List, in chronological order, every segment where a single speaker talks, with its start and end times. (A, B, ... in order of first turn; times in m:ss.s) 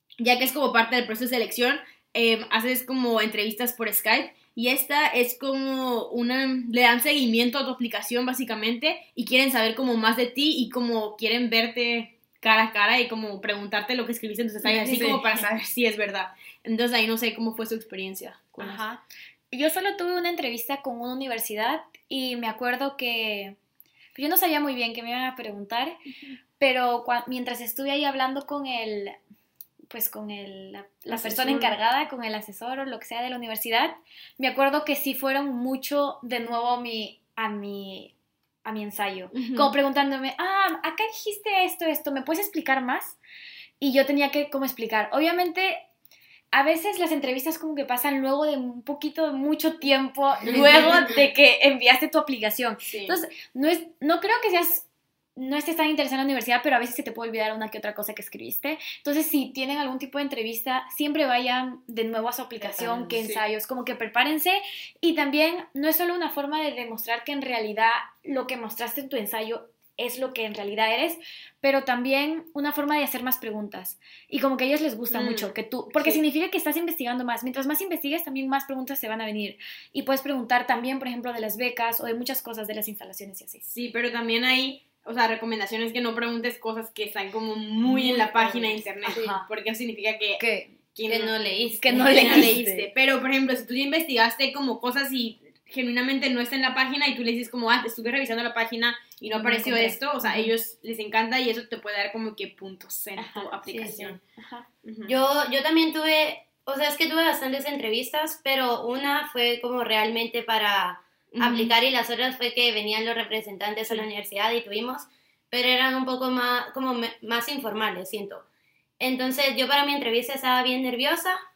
0:00.2-0:18.8 A
0:14.8-0:15.2 B
0:14.8-0:15.2 C
0:18.6-0:23.6 C
0:24.1-0:26.0 C
0:26.6-0:29.2 C
0:29.9-0:38.1 C
0:31.1-0:31.8 A
0:38.6-0:43.2 C
0:39.3-0:39.8 A
0:43.8-0:45.8 C
0:46.5-1:23.6 C
0:50.4-0:51.1 A
0:52.8-0:53.2 A
1:02.6-1:03.2 B
1:03.2-1:03.4 A
1:15.1-1:16.2 A
1:23.6-1:30.4 A
1:27.8-1:29.4 B
1:29.0-1:29.5 C
1:30.4-1:30.8 C
1:30.9-1:31.3 A
1:31.1-1:32.8 B
1:31.8-1:32.6 C
1:32.1-1:44.2 A
1:39.2-1:40.5 C
1:43.2-1:43.5 C
1:43.7-1:44.2 B
1:44.4-1:44.7 C
1:44.8-1:45.1 A
1:45.0-1:58.4 B
1:51.3-1:51.8 A
1:59.0-2:01.4 B